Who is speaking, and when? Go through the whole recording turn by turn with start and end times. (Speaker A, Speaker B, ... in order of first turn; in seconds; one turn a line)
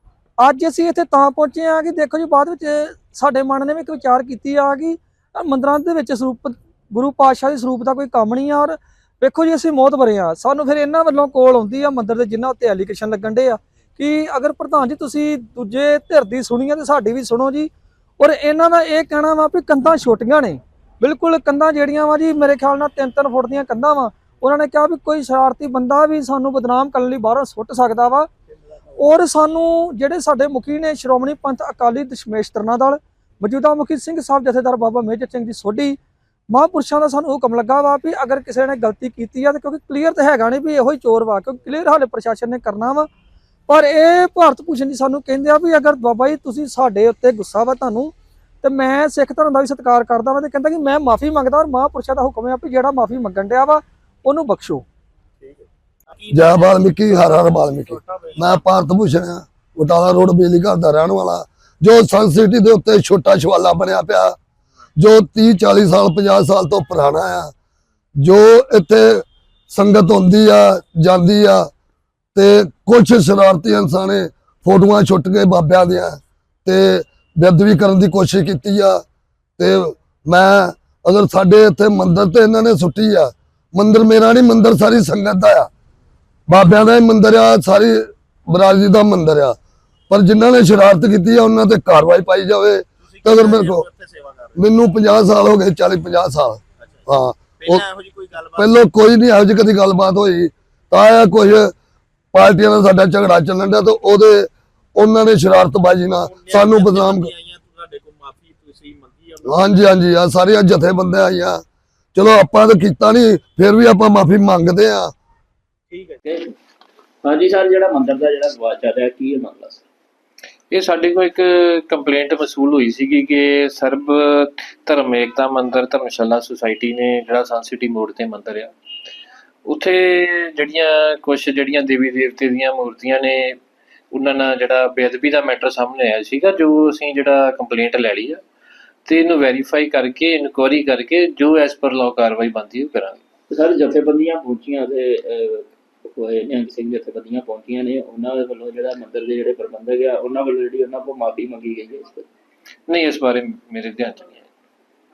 Speaker A: 0.4-28.3
Speaker A: 29.0-36.0
Speaker A: 36.5-43.1
Speaker A: 43.7-54.8
Speaker B: 55.4-56.6
Speaker C: 56.3-64.3
Speaker B: 57.9-58.5
Speaker C: 65.0-67.5
Speaker C: 68.2-71.7
Speaker C: 72.3-79.0
Speaker C: 79.6-85.7
Speaker C: 86.5-89.6
Speaker C: 90.1-93.8
Speaker B: 93.0-94.6
Speaker C: 94.5-97.8
Speaker B: 96.8-97.1
Speaker B: 97.6-98.7
Speaker C: 98.6-101.7
Speaker C: 102.3-107.3
Speaker B: 106.2-109.7
Speaker C: 109.4-111.6
Speaker C: 112.1-115.1
Speaker B: 115.9-116.2
Speaker D: 116.3-116.5
Speaker D: 117.2-119.8
Speaker E: 120.7-128.7
Speaker E: 129.7-133.6
Speaker E: 134.1-138.4
Speaker E: 139.1-143.2
Speaker D: 143.5-145.6
Speaker D: 146.2-152.2
Speaker E: 152.9-154.5